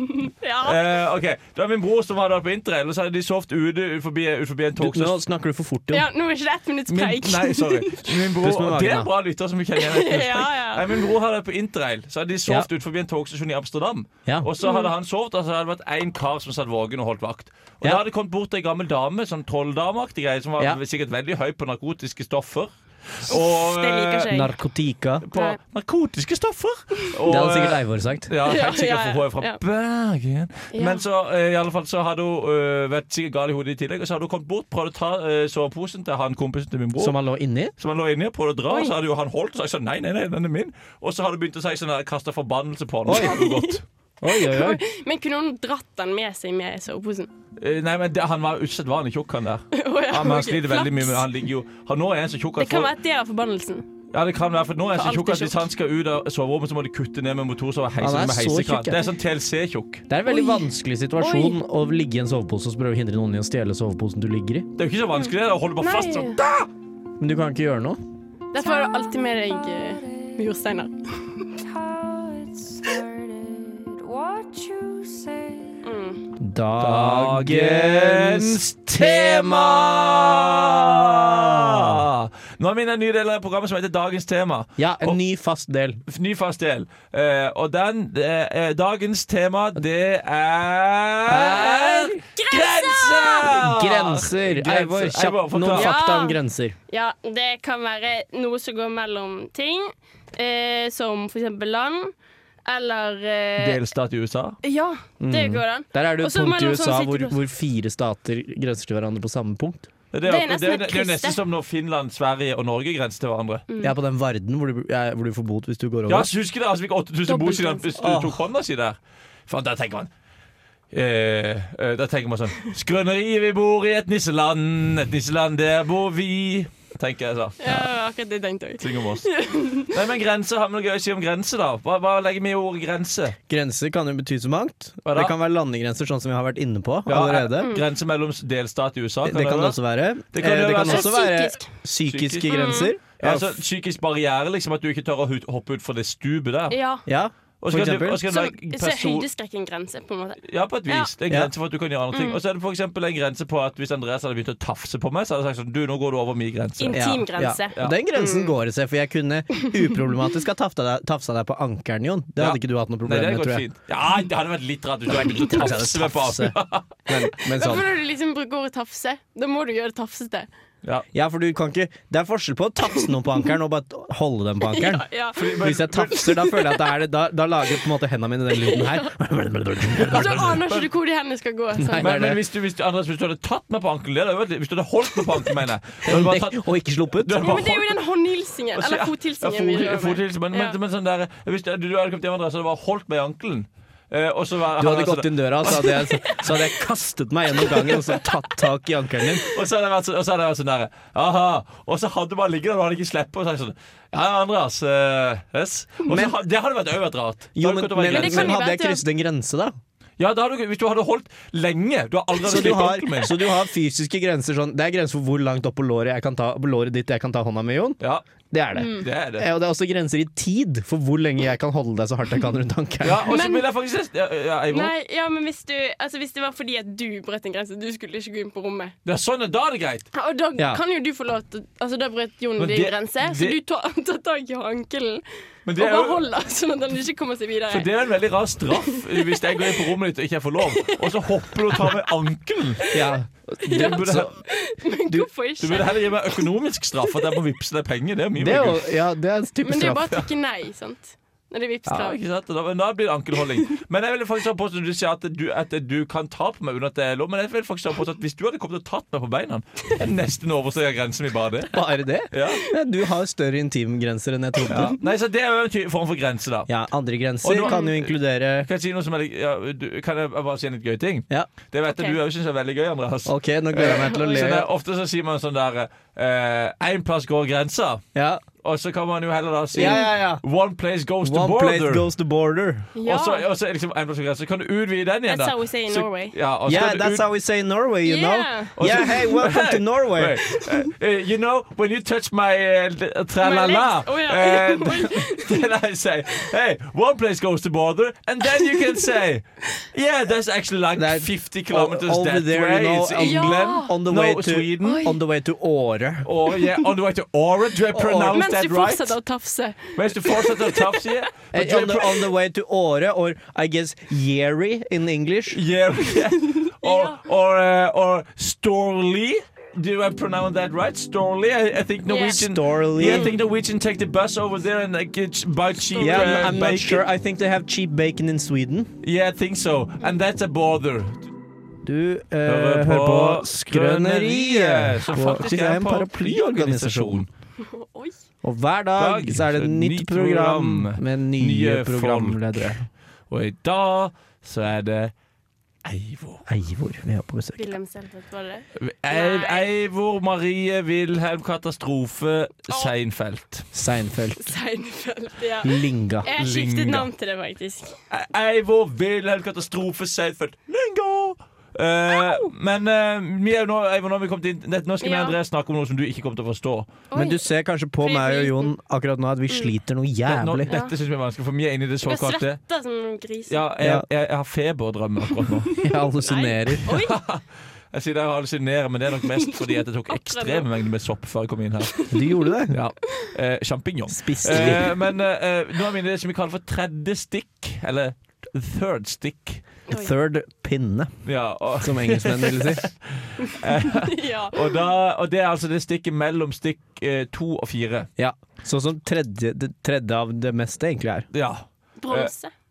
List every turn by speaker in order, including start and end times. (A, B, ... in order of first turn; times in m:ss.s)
0:00.2-0:00.8 A
0:00.6-0:05.2 B
0:04.8-0:06.1 C
0:05.9-0:08.2 A
0:06.9-0:24.3 B
0:08.4-0:09.1 C
0:09.8-0:11.0 A
0:14.6-0:14.9 A
0:23.3-0:24.5 A
0:24.3-0:25.3 C
0:25.3-0:37.2 B
0:27.3-0:28.3 C
0:28.4-0:29.6 A
0:30.7-0:31.0 A
0:37.0-0:37.7 C
0:37.8-0:43.8 B
0:38.7-0:38.9 A
0:43.1-0:43.5 C
0:43.1-0:47.3 A
0:44.2-0:44.8 C
0:47.6-0:52.9 B
0:49.7-0:51.3 A
0:52.6-0:53.9 A
0:54.1-1:00.0 B
0:55.0-0:55.6 A
0:58.0-0:59.0 C
1:00.1-1:04.7 C
1:00.3-1:01.6 A
1:04.8-1:06.7 B
1:05.2-1:06.4 A
1:07.2-1:08.0 C
1:08.5-1:11.7 A
1:11.9-1:15.7 D
1:12.7-1:13.0 A
1:15.8-1:16.3 A
1:16.4-1:22.0 C
1:16.8-1:25.2 B
1:24.8-1:26.0 C
1:26.1-1:35.9 B
1:31.3-1:31.8 C
1:31.4-1:33.6 A
1:33.6-1:36.8 C
1:35.7-1:42.1 A
1:42.7-1:43.8 A
1:43.6-1:44.6 B
1:44.6-1:47.4 A
1:45.2-1:49.9 C
1:50.1-1:53.6 B
1:50.3-1:51.4 A
1:53.7-1:54.0 A
1:53.8-1:56.3 C
1:56.1-2:00.1 B
1:57.3-1:57.9 A
1:58.0-1:58.4 C
2:00.9-2:07.9 B
2:07.6-2:10.0 A
2:08.8-2:13.4 B
2:13.5-2:17.7 C
2:15.0-2:15.3 B
2:17.1-2:19.8 B
2:17.6-2:17.8 A
2:19.2-2:23.5 C
2:20.3-2:21.2 B
2:20.8-2:21.7 A
2:22.1-2:26.8 B
2:22.5-2:22.9 A
2:26.7-2:27.0 A
2:27.1-2:28.2 C
2:27.6-2:29.3 B
2:28.2-2:31.1 A
2:30.4-2:37.1 B
2:32.1-2:32.4 A
2:36.8-2:38.6 A
2:36.9-2:43.6 C
2:42.4-2:47.2 B
2:45.1-2:47.9 C
2:47.5-2:50.5 A
2:51.1-2:55.1 C
2:54.7-2:57.0 A
2:55.3-2:56.1 B
2:55.6-3:00.5 C
2:58.5-2:59.1 A
2:59.9-3:00.9 B
3:00.0-3:02.2 A
3:01.8-3:02.4 C
3:02.0-3:06.6 B
3:06.0-3:07.5 C
3:07.2-3:07.9 B
3:07.4-3:10.8 A
3:08.7-3:16.4 B
3:14.8-3:19.5 C
3:16.1-3:16.5 A
3:17.6-3:18.3 A
3:19.5-3:28.5 B
3:26.1-3:26.4 C
3:27.6-3:29.8 C
3:28.1-3:29.0 A
3:30.2-3:33.4 B
3:32.4-3:38.0 C
3:38.5-3:43.3 C
3:38.8-3:39.1 A
3:38.9-3:39.5 B
3:43.0-3:44.9 B
3:43.3-3:43.7 A
3:44.7-3:49.0 A
3:49.0-3:50.1 B
3:50.1-3:55.2 A
3:52.6-3:53.6 B
3:55.7-3:56.2 B
3:55.8-3:57.9 A
3:57.7-4:02.9 B
3:58.7-3:59.9 A
4:00.6-4:02.1 A
4:02.8-4:03.1 A
4:02.9-4:04.3 C
4:03.6-4:06.5 A
4:03.7-4:04.3 B
4:05.6-4:08.8 B
4:08.4-4:10.3 C
4:09.6-4:12.2 A
4:11.9-4:21.8 B
4:21.7-4:25.0 C
4:22.3-4:22.7 B
4:24.7-4:26.7 B
4:26.7-4:28.7 C
4:27.4-4:38.0 B
4:31.9-4:32.2 A
4:33.3-4:34.7 C
4:33.8-4:34.5 A
4:38.2-4:38.4 C
4:38.6-4:42.1 B
4:39.7-4:40.4 C
4:39.8-4:40.1 A
4:41.2-4:42.9 C
4:43.0-4:43.4 A
4:43.0-4:47.3 B
4:45.3-4:46.4 A
4:46.7-4:50.4 C
4:48.0-4:49.3 A
4:48.8-5:05.1 B
4:53.4-4:55.7 A
5:01.0-5:06.3 C
5:03.2-5:04.0 A
5:04.8-5:05.2 A
5:06.2-5:09.2 B
5:07.9-5:08.4 C
5:08.3-5:11.1 A
5:10.0-5:12.2 B
5:11.5-5:15.6 C
5:15.5-5:27.0 B
5:16.2-5:17.2 A
5:22.1-5:22.4 A
5:22.2-5:23.3 C
5:23.0-5:23.4 A
5:26.0-5:26.6 A
5:26.0-5:28.9 C
5:29.0-5:31.3 B
5:31.8-5:37.3 C
5:32.5-5:37.3 B
5:37.6-5:38.2 A
5:38.4-5:42.9 C
5:39.0-5:42.7 B
5:43.3-5:45.1 B
5:45.8-5:46.5 B
5:46.5-5:47.7 C
5:47.6-5:49.7 A
5:48.8-5:53.7 B
5:53.7-5:54.5 C
5:54.4-5:58.0 A
5:55.6-5:56.3 C
5:56.4-5:57.1 B
5:58.1-6:07.0 B
6:02.1-6:02.5 A
6:05.0-6:05.4 A
6:07.1-6:07.4 A
6:07.1-6:10.7 C
6:08.0-6:08.7 A
6:10.3-6:12.6 B
6:10.7-6:10.9 A
6:12.1-6:13.6 A
6:13.5-6:15.7 B
6:13.8-6:14.0 C
6:15.4-6:17.2 A
6:15.8-6:16.9 C
6:16.9-6:21.9 B
6:19.3-6:20.7 A
6:21.9-6:22.5 A
6:22.1-6:22.8 C
6:22.7-6:29.6 B
6:24.1-6:24.9 C
6:24.4-6:25.0 A
6:29.9-6:31.2 C
6:31.2-6:38.1 B
6:31.8-6:32.9 C
6:33.5-6:34.8 A
6:38.2-6:41.3 C
6:41.3-6:42.3 B
6:42.0-6:42.5 A